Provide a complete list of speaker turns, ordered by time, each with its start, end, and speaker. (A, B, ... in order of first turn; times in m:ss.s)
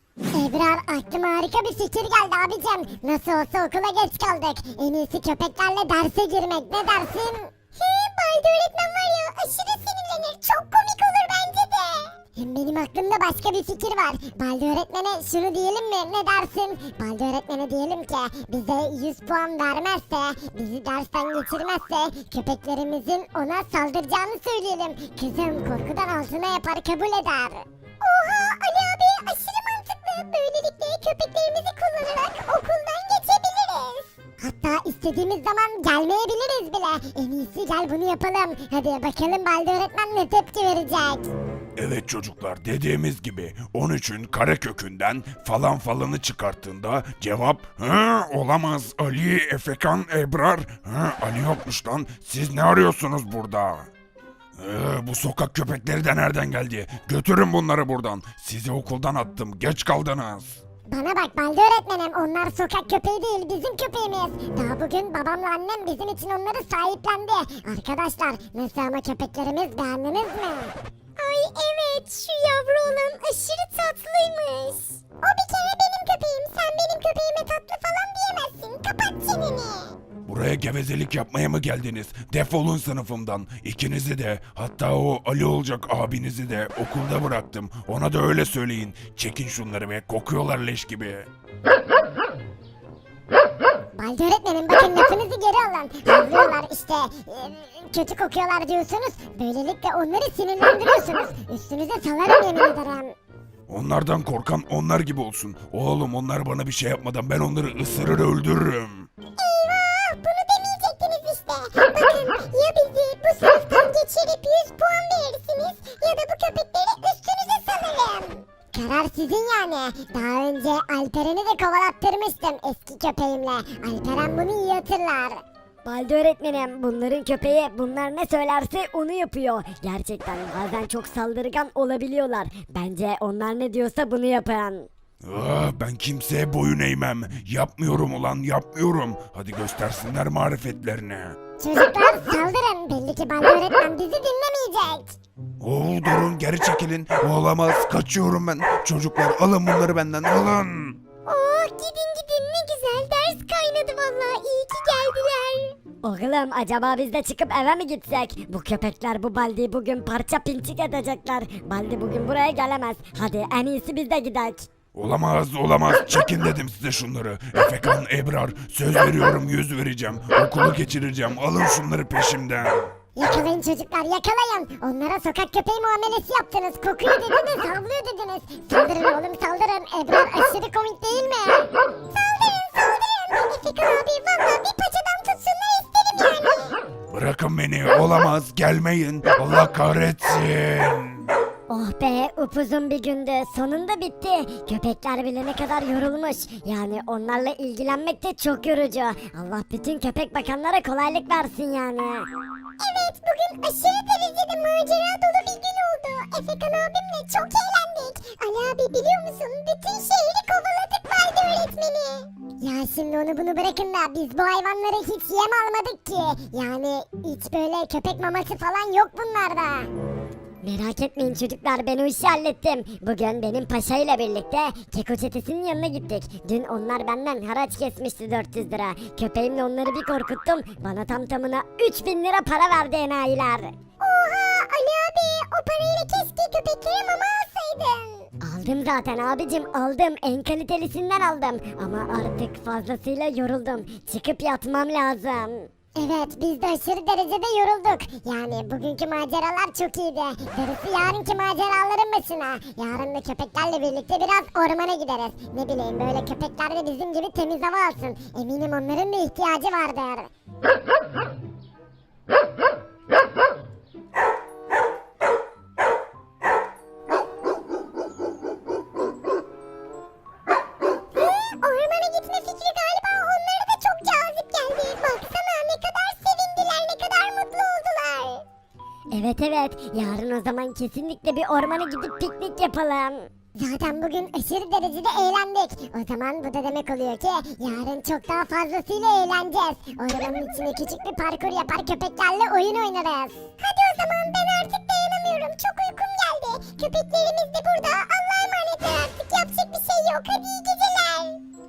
0:00.3-0:41.3 A
0:41.8-0:53.8 B
0:54.6-1:00.6 B
1:00.9-1:19.9 A
1:20.3-1:31.2 B
1:34.0-1:43.1 A
1:43.7-1:49.0 B
1:49.4-2:05.4 A
2:05.8-2:14.9 C
2:15.2-2:21.3 B
2:21.6-2:25.2 A
2:25.6-2:31.0 B
2:31.3-2:35.7 A
2:36.0-2:44.7 C
2:44.9-2:52.8 B
2:53.2-3:06.8 A
3:07.1-3:11.3 B
3:11.7-3:22.2 C
3:22.8-3:39.9 A
3:40.6-3:53.7 C
3:54.0-3:58.3 A
3:58.4-4:05.7 C
4:05.9-4:20.3 A
4:31.3-4:38.4 A
4:39.1-4:43.3 C
4:43.6-5:01.4 A